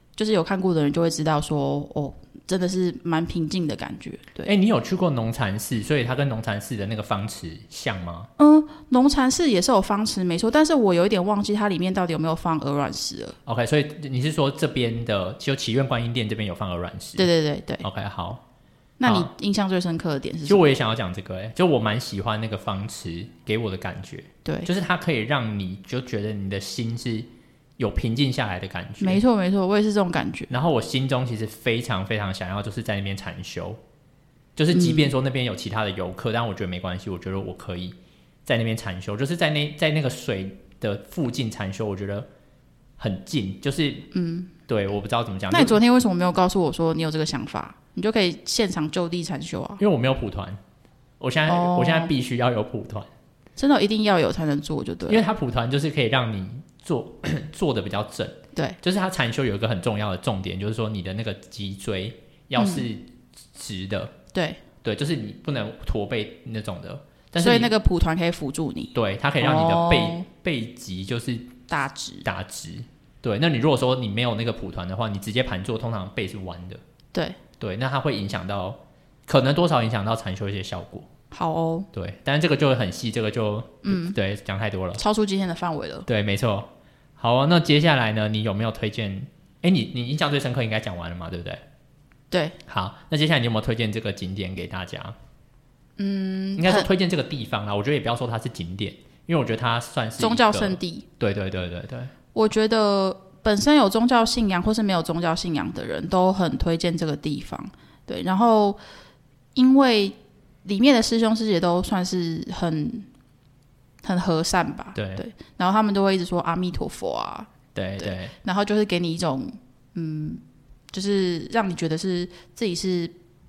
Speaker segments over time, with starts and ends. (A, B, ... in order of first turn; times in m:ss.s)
0:00.2-0:04.5 A
0:04.4-0:08.3 B
0:08.4-0:13.4 A
0:13.4-0:17.3 B
0:17.2-0:17.8 A
0:17.8-0:18.4 B
0:19.0-0:20.7 A
0:19.0-0:19.3 B
0:20.5-0:29.2 B
0:29.0-0:30.5 A
0:30.5-0:33.8 B
0:34.6-0:42.3 B
0:34.7-0:35.1 A
0:43.0-0:44.1 B
0:44.1-0:44.5 A
0:44.7-0:45.8 B
0:45.5-0:49.8 A
0:49.8-0:50.6 B
0:51.2-0:53.1 B
0:51.5-0:52.1 A
0:53.6-0:55.2 A
0:55.1-1:04.1 B
1:02.6-1:02.9 A
1:04.3-1:04.6 A
1:04.8-1:07.7 B
1:07.4-1:10.2 A
1:08.9-1:11.6 B
1:11.7-1:12.2 A
1:12.2-1:16.8 B
1:17.1-1:17.4 A
1:17.6-1:21.1 B
1:21.3-1:21.9 A
1:21.9-1:25.0 B
1:23.8-1:24.2 A
1:25.0-1:26.0 A
1:26.1-1:31.6 B
1:32.3-1:32.6 A
1:32.7-1:35.2 B
1:36.0-1:36.9 A
1:36.6-1:42.1 B
1:40.2-1:41.0 A
1:42.3-1:48.8 A
1:49.5-1:53.1 A
1:54.0-2:00.4 A
1:54.9-1:55.2 B
1:57.7-1:58.3 B
2:00.9-2:03.1 A